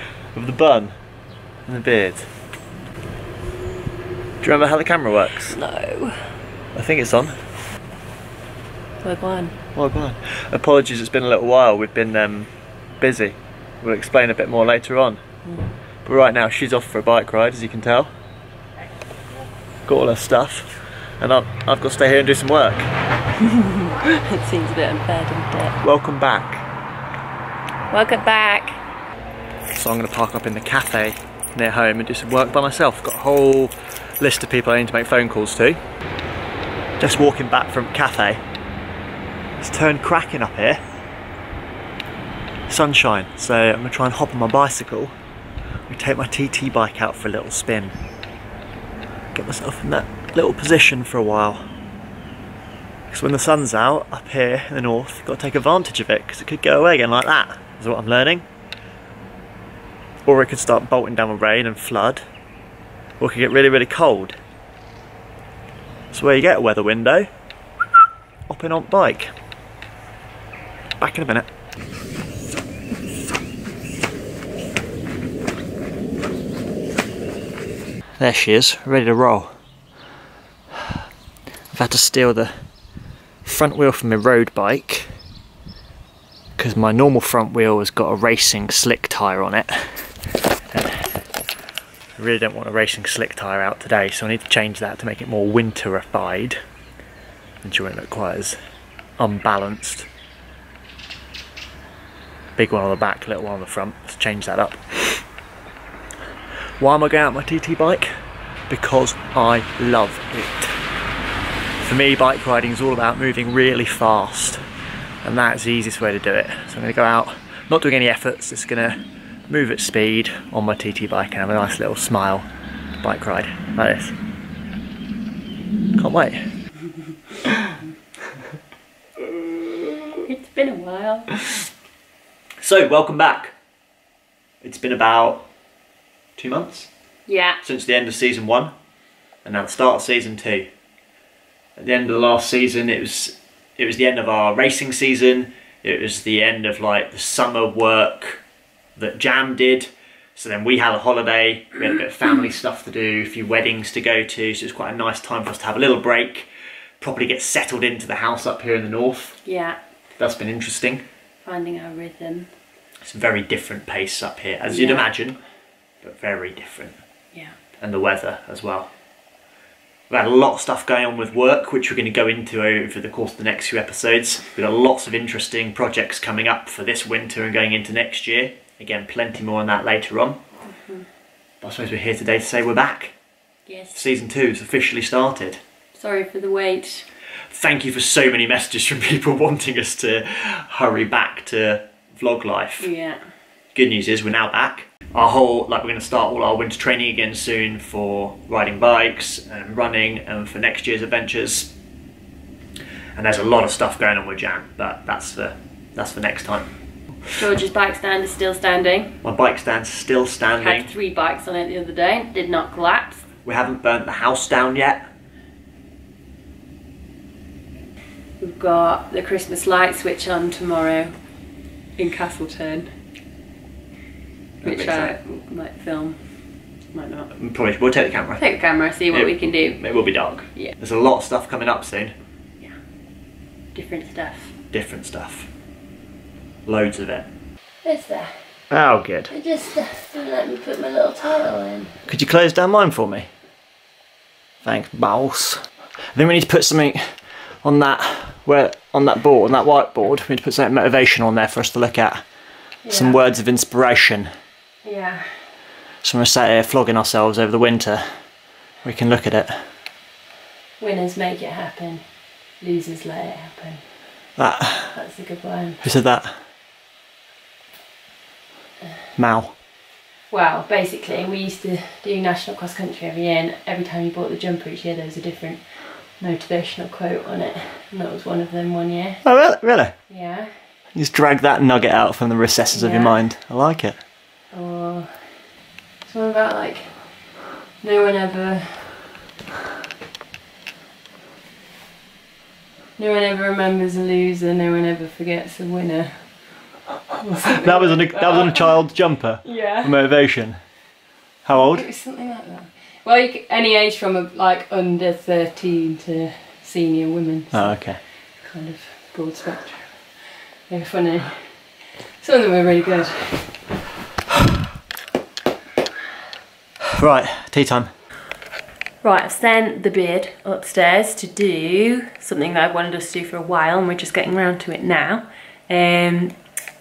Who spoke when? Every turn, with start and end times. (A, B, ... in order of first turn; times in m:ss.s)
0:00.3-0:00.9 A
0:01.7-0:02.3 A
0:04.4-0:05.6 A
0:05.5-0:06.3 B
0:06.7-0:07.4 A
0:09.0-0:09.6 B
0:09.8-0:15.2 A
0:16.0-0:18.1 A
0:19.9-0:22.9 A
0:23.4-0:25.8 B
0:25.8-0:26.6 A
0:27.9-0:28.8 B
0:29.8-0:35.8 A
0:37.0-0:38.4 A
0:39.6-0:40.8 A
0:42.7-0:45.1 A
0:45.9-0:48.0 A
0:49.3-0:51.6 A
0:53.1-0:58.5 A
1:00.3-1:02.2 A
1:03.2-1:04.4 A
1:06.1-1:07.3 A
1:08.5-1:09.3 A
1:11.0-1:11.5 A
1:18.2-1:19.5 A
1:21.7-1:22.5 A
1:23.4-1:25.1 A
1:26.6-1:30.1 A
1:30.7-1:31.0 A
1:32.2-1:36.6 A
1:37.6-1:38.6 A
1:39.2-1:40.1 A
1:42.6-1:45.2 A
1:46.8-1:48.1 A
1:48.7-1:50.8 A
1:51.8-1:54.6 A
1:55.2-1:59.0 A
1:59.5-2:02.5 A
2:03.0-2:04.2 A
2:06.0-2:06.4 A
2:10.2-2:11.3 B
2:12.6-2:13.5 A
2:14.6-2:15.5 A
2:16.4-2:16.9 A
2:17.3-2:17.6 B
2:17.6-2:18.7 A
2:19.4-2:20.7 A
2:21.8-2:28.4 A
2:29.0-2:36.5 A
2:37.0-2:39.4 A
2:39.4-2:39.8 B
2:40.2-2:41.0 A
2:41.4-2:42.5 B
2:43.0-2:45.4 A
2:44.7-2:45.1 B
2:46.0-2:47.0 A
2:47.8-2:48.9 A
2:50.1-3:00.4 A
3:00.7-3:01.1 B
3:01.6-3:03.1 A
3:03.7-3:04.0 B
3:04.0-3:05.6 A
3:05.9-3:07.1 B
3:07.5-3:12.9 A
3:12.8-3:13.2 B
3:13.7-3:21.7 A
3:23.2-3:26.7 A
3:27.3-3:29.2 B
3:29.2-3:30.9 A
3:30.6-3:33.2 B
3:33.4-3:35.1 A
3:38.4-3:41.1 B
3:42.0-3:42.9 B
3:44.6-3:46.2 B
3:44.6-3:45.2 A
3:46.9-3:47.3 B
3:47.4-3:48.4 A
3:48.4-3:49.8 B
3:49.1-3:52.2 A
3:53.7-3:54.5 B
3:54.7-3:55.5 A
3:56.7-3:57.3 A
3:57.8-3:58.3 B
3:58.7-3:59.3 A
3:59.3-4:02.0 B
4:02.1-4:03.3 A
4:04.6-4:05.6 A
4:06.1-4:07.0 A
4:07.6-4:12.2 A
4:12.8-4:13.2 B
4:12.9-4:14.3 A
4:14.8-4:15.3 B
4:16.0-4:18.0 A
4:18.8-4:19.5 A
4:20.8-4:22.0 B
4:22.6-4:23.8 B
4:24.4-4:24.9 A
4:24.9-4:25.8 B
4:25.8-4:26.3 A
4:29.2-4:29.5 A
4:30.3-4:39.2 B
4:39.2-4:39.9 A
4:40.1-4:40.5 B
4:41.0-4:44.0 A
4:42.7-4:43.2 B
4:44.5-4:45.1 B
4:46.1-4:47.0 B
4:47.8-4:49.0 B
4:53.0-4:56.2 B
4:57.1-4:58.8 B
4:57.5-5:00.6 A
4:59.4-4:59.9 B
5:01.4-5:01.9 A
5:01.5-5:07.8 B
5:07.5-5:08.0 A
5:08.4-5:10.0 B
5:10.7-5:11.4 B
5:12.2-5:13.6 B
5:17.0-5:17.9 A
5:19.0-5:26.4 B